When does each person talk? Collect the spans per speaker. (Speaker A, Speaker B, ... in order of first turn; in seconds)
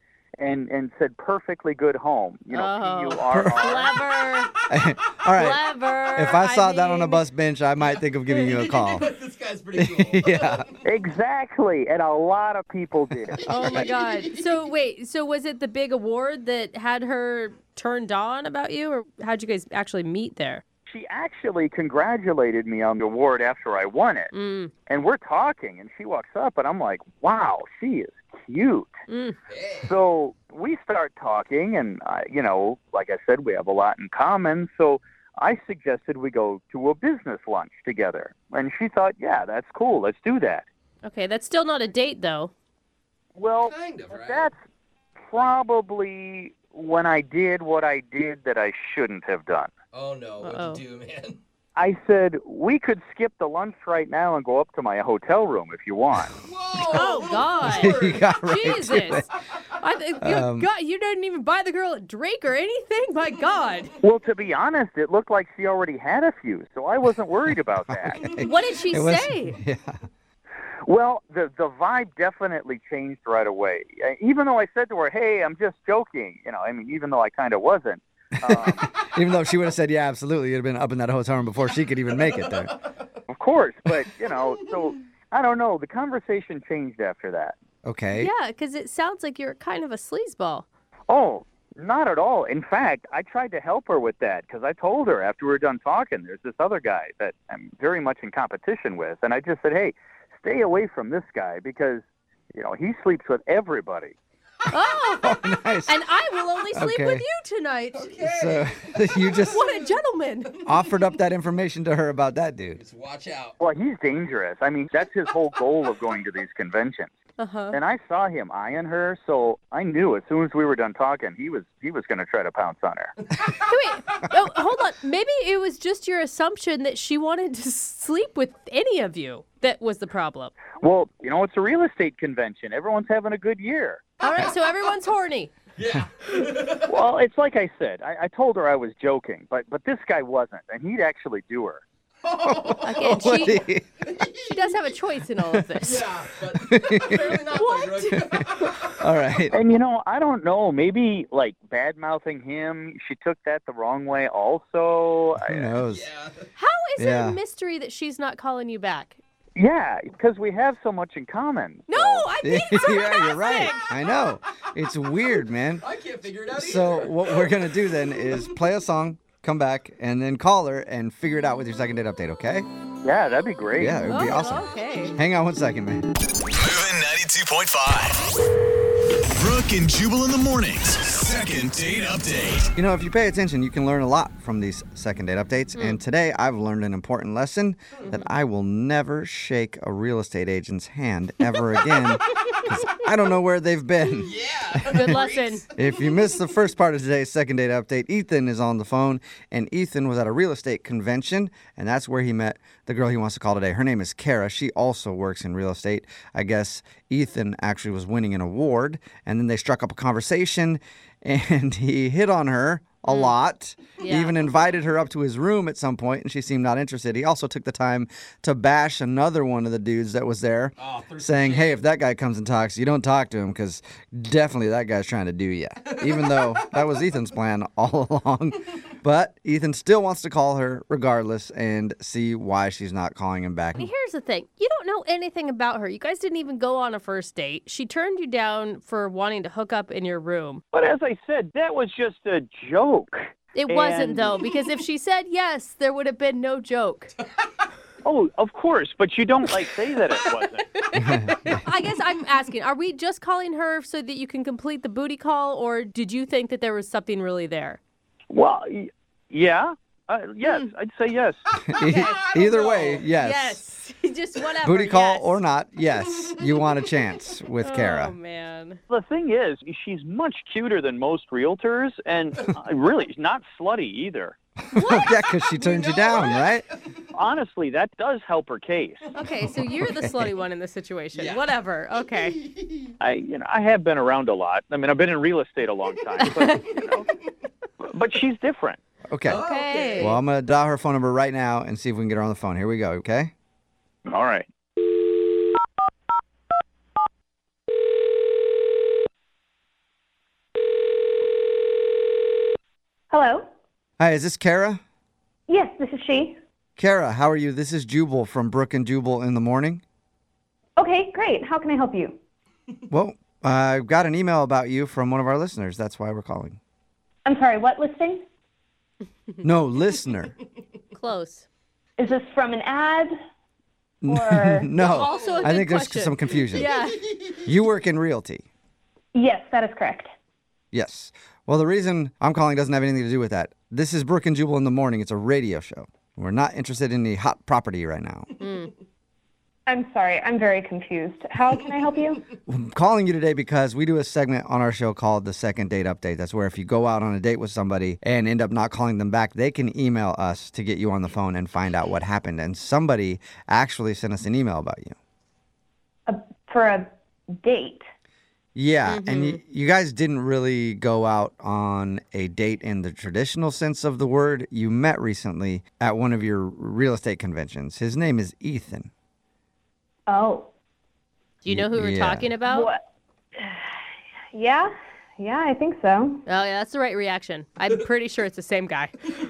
Speaker A: 0.4-4.0, 10.8-13.4, 20.9-24.3, 24.9-28.9, 29.8-40.6, 43.4-44.6, 45.3-49.7, 51.8-56.4, 64.0-68.3, 70.9-78.9, 83.3-87.6, 91.1-104.2, 113.6-117.1, 117.7-123.2, 130.8-134.0, 136.8-141.8, 149.5-155.7, 159.6-162.3, 173.0-174.1, 240.7-244.4, 248.0-250.7, 258.3-261.4, 268.9-274.4, 277.1-279.0, 283.0-287.1, 287.8-288.8, 294.1-294.5
Speaker B: 2.5-4.5, 5.3-7.2, 13.5-20.6, 24.3-24.7, 29.1-29.4, 41.0-42.5, 50.4-50.8, 56.9-63.9, 68.4-69.6, 88.2-90.7, 104.7-108.1, 109.5-110.5, 117.4-117.8, 123.6-130.5, 134.2-135.5, 142.8-143.6, 144.4-146.1, 147.5-148.3, 156.6-159.2, 161.9-163.9, 174.1-175.2, 185.8-186.0, 191.5-192.9, 194.9-195.7, 213.1-213.4, 214.0-214.5, 233.8-240.6, 243.6-247.1, 250.8-257.8, 260.4-260.7, 261.8-262.1, 263.1-265.4, 267.6-268.8, 274.8-276.3, 279.1-282.4, 286.2-286.8, 289.4-290.2, 320.9-321.5, 324.9-327.1, 338.4-338.7, 358.9-359.4, 371.4-372.7, 376.3-378.9
Speaker C: 3.3-3.8, 4.7-5.6, 6.2-9.1, 9.8-10.6, 13.4-13.9, 57.6-59.3, 60.2-60.7, 67.9-70.0, 78.6-82.8, 87.8-88.3, 105.2-106.0, 106.7-107.2, 108.2-109.7, 110.7-112.8, 142.5-143.8, 146.5-147.4, 148.1-149.6, 155.4-156.1, 157.0-157.4, 162.4-165.8, 166.5-172.7, 173.8-176.1, 182.8-195.2, 195.8-233.9, 250.9-251.6, 261.7-263.6, 264.6-268.1, 274.8-276.6, 289.1-289.4, 290.0-293.3, 304.0-304.8, 306.8-309.8, 312.9-316.6, 319.4-320.3, 324.0-328.4, 330.7-338.3, 342.5-354.9, 358.6-368.9, 371.5-372.3
Speaker D: 7.8-10.9, 13.4-14.5, 29.5-30.0, 43.6-44.5, 49.9-51.4, 56.4-58.3, 58.9-59.7, 82.1-82.7, 107.9-109.9, 110.5-111.0, 112.8-113.5, 135.8-136.9, 142.2-144.9, 145.8-149.4, 155.8-156.5, 165.8-168.6, 194.2-196.1, 220.8-221.8, 225.9-226.7, 261.6-263.1, 266.1-266.9, 275.6-277.0, 279.4-279.8, 281.1-281.6, 282.1-282.9, 289.2-290.1, 324.8-325.6
Speaker E: 176.6-178.2, 179.4-182.7
Speaker F: 303.1-303.4, 305.5-306.4, 310.8-312.2, 317.2-318.2, 322.0-323.1, 324.1-324.7, 329.1-330.1, 339.7-342.2, 356.1-357.8, 370.1-370.5, 372.4-372.8, 373.4-373.7, 374.3-376.2